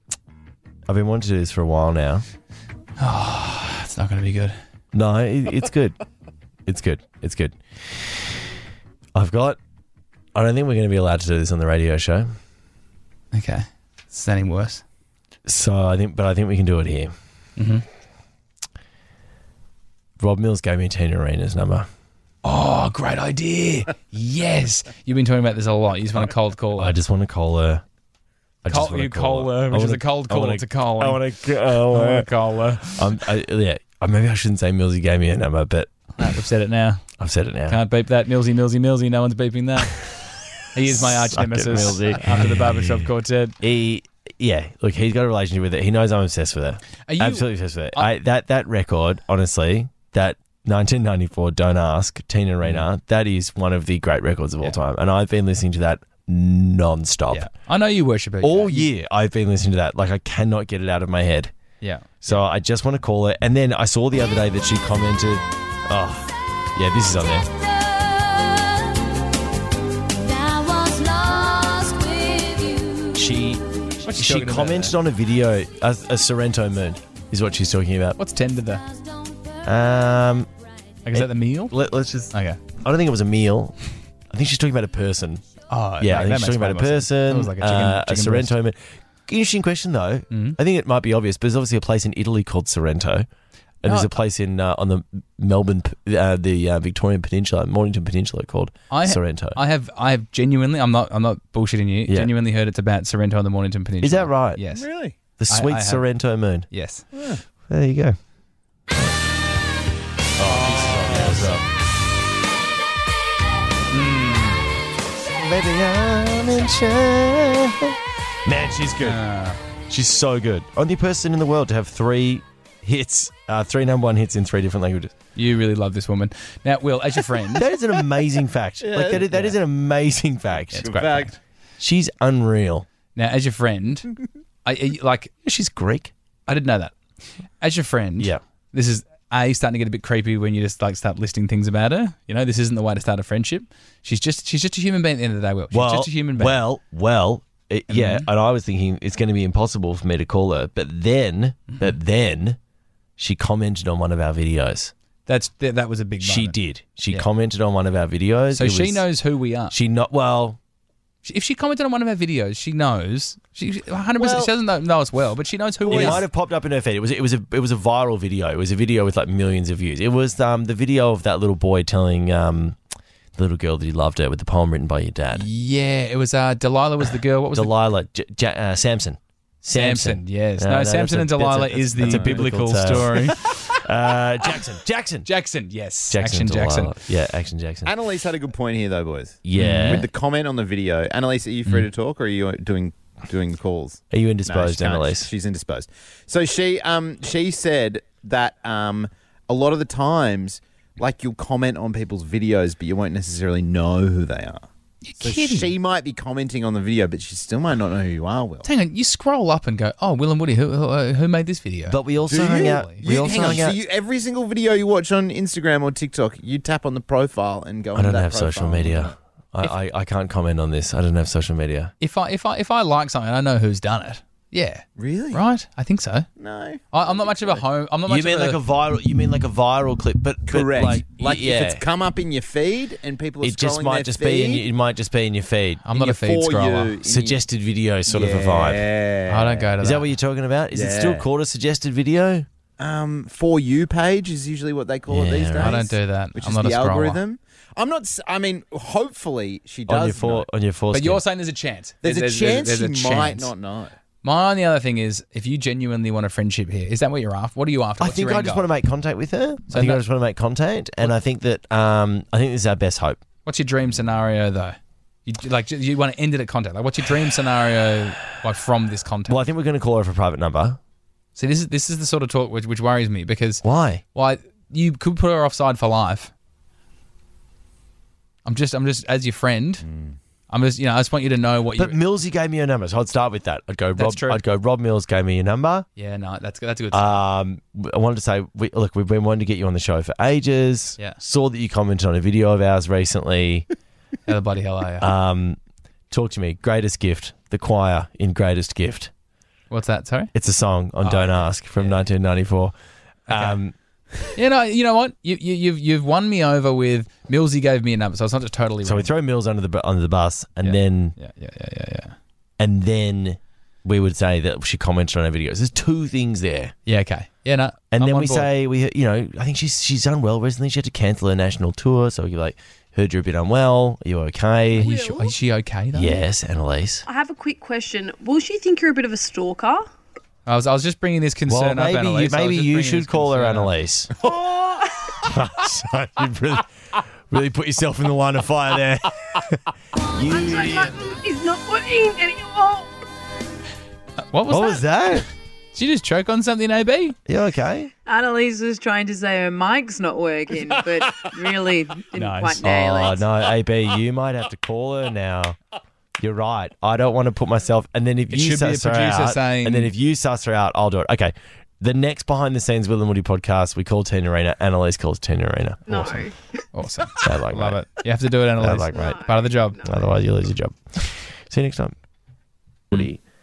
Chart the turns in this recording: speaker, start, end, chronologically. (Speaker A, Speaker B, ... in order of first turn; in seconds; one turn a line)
Speaker A: 0.9-2.2
Speaker B: 3.0-4.6
Speaker A: 4.9-6.0
Speaker A: 6.7-8.1
Speaker A: 9.2-9.6
Speaker A: 10.3-12.3
Speaker B: 13.3-14.8
Speaker A: 15.5-17.1
Speaker B: 17.6-17.9
Speaker A: 20.2-21.9
Speaker B: 22.4-27.0
Speaker A: 26.8-27.8
Speaker A: 28.6-32.3
Speaker B: 28.7-31.2
Speaker B: 31.8-33.1
Speaker A: 32.8-35.9
Speaker B: 36.2-37.0
Speaker A: 37.2-37.8
Speaker B: 37.7-40.1
Speaker B: 40.7-43.6
Speaker A: 40.9-43.1
Speaker A: 43.6-57.5
Speaker B: 47.1-48.1
Speaker B: 57.3-58.9
Speaker A: 58.4-61.5
Speaker B: 61.8-62.4
Speaker A: 62.2-67.5
Speaker C: 70.3-72.8
Speaker D: 72.3-73.0
Speaker A: 73.1-78.2
Speaker B: 74.0-75.0
Speaker B: 78.2-78.8
Speaker A: 79.7-80.5
Speaker B: 81.1-81.8
Speaker A: 81.1-83.8
Speaker B: 82.3-82.6
Speaker A: 84.3-85.4
Speaker B: 85.7-88.5
Speaker A: 86.0-93.3
Speaker B: 90.3-90.6
Speaker A: 93.8-99.6
Speaker B: 93.8-94.1
Speaker B: 98.9-104.9
Speaker A: 104.0-104.6
Speaker E: 104.7-105.2
Speaker A: 105.4-106.7
Speaker B: 105.5-106.1
Speaker B: 106.7-107.0
Speaker E: 107.1-107.4
Speaker A: 107.7-108.2
Speaker A: 110.4-111.7
Speaker B: 110.4-111.6
Speaker B: 113.9-114.7
Speaker A: 115.3-119.2
Speaker B: 119.0-119.6
Speaker A: 119.9-125.2
Speaker B: 125.3-127.7
Speaker A: 127.5-130.9
Speaker E: 128.8-129.2
Speaker B: 129.3-129.6
Speaker B: 130.7-131.4
Speaker E: 130.8-131.3
Speaker A: 131.8-132.9
Speaker B: 133.2-135.3
Speaker A: 135.4-136.1
Speaker B: 136.5-137.0
Speaker B: 137.6-146.6
Speaker A: 145.7-152.6
Speaker B: 147.9-148.3
Speaker A: 153.2-154.9
Speaker B: 155.3-156.6
Speaker A: 156.2-159.0
Speaker B: 158.5-159.8
Speaker A: 159.7-160.6
Speaker B: 161.2-166.2
Speaker E: 164.2-164.5
Speaker E: 165.9-166.2
Speaker A: 165.9-172.8
Speaker A: 173.4-175.5
Speaker B: 175.3-177.8
Speaker A: 177.5-185.3
Speaker B: 179.7-183.8
Speaker E: 182.0-182.5
Speaker B: 185.2-187.0
Speaker A: 186.1-187.9
Speaker E: 187.9-204.6
Speaker A: 189.4-190.1
Speaker B: 189.6-190.1
Speaker A: 194.1-195.3
Speaker B: 205.0-205.8
Speaker E: 205.2-208.7
Speaker B: 208.6-213.6
Speaker A: 211.9-213.8
Speaker E: 212.3-219.1
Speaker A: 217.9-221.9
Speaker B: 222.0-226.3
Speaker E: 225.0-225.4
Speaker E: 226.4-227.6
Speaker B: 226.9-228.6
Speaker A: 228.1-231.8
Speaker E: 230.5-234.7
Speaker A: 233.4-235.9
Speaker B: 235.8-236.9
Speaker E: 235.9-237.4
Speaker A: 237.1-238.8
Speaker E: 238.1-239.8
Speaker B: 239.3-240.1
Speaker A: 239.8-242.5
Speaker E: 240.7-241.3
Speaker E: 242.8-250.5
Speaker A: 245.1-245.8
Speaker B: 245.6-247.2
Speaker A: 249.9-251.2
Speaker B: 250.9-253.5
Speaker E: 252.0-253.9
Speaker B: 254.2-258.7
Speaker A: 258.0-263.2
Speaker B: 259.7-260.0
Speaker B: 263.5-269.4
Speaker A: 269.3-270.8
Speaker B: 271.4-276.3
Speaker A: 273.6-274.0
Speaker B: 278.4-279.9
Speaker E: 279.9-280.1
Speaker B: 280.5-282.0
Speaker A: 281.8-285.9
Speaker B: 283.9-284.4
Speaker B: 286.0-287.2
Speaker A: 286.9-293.7
Speaker B: 294.3-295.1
Speaker A: 295.0-295.6
Speaker A: 296.1-299.1
Speaker B: 299.7-300.3
Speaker A: 300.4-302.8
Speaker B: 301.0-302.0
Speaker B: 303.3-303.6
Speaker A: 303.3-303.8
Speaker B: 304.3-309.1
Speaker A: 308.8-311.1
Speaker B: 310.6-312.2
Speaker A: 312.6-316.7
Speaker B: 316.9-318.5
Speaker A: 317.9-325.0
Speaker B: 324.8-326.2
Speaker D: 324.8-325.3
Speaker A: 325.9-327.1
Speaker D: 327.1-329.8
Speaker B: 330.5-333.7
Speaker A: 331.5-334.1
Speaker D: 334.2-335.1
Speaker A: 335.2-341.0
Speaker D: 340.1-342.9
Speaker B: 344.3-345.2
Speaker A: 344.5-345.3
Speaker B: 345.7-347.2
Speaker A: 347.3-347.9
Speaker D: 348.1-353.2
Speaker B: 352.1-352.6
Speaker A: 352.6-355.6
Speaker A: 356.2-366.3
Speaker B: 358.3-359.9
Speaker D: 365.9-366.4
Speaker B: 366.7-369.9
Speaker A: 367.2-367.8
Speaker A: 368.6-369.2
Speaker D: 368.9-369.9
Speaker A: 369.8-371.9
Speaker A: 372.9-373.2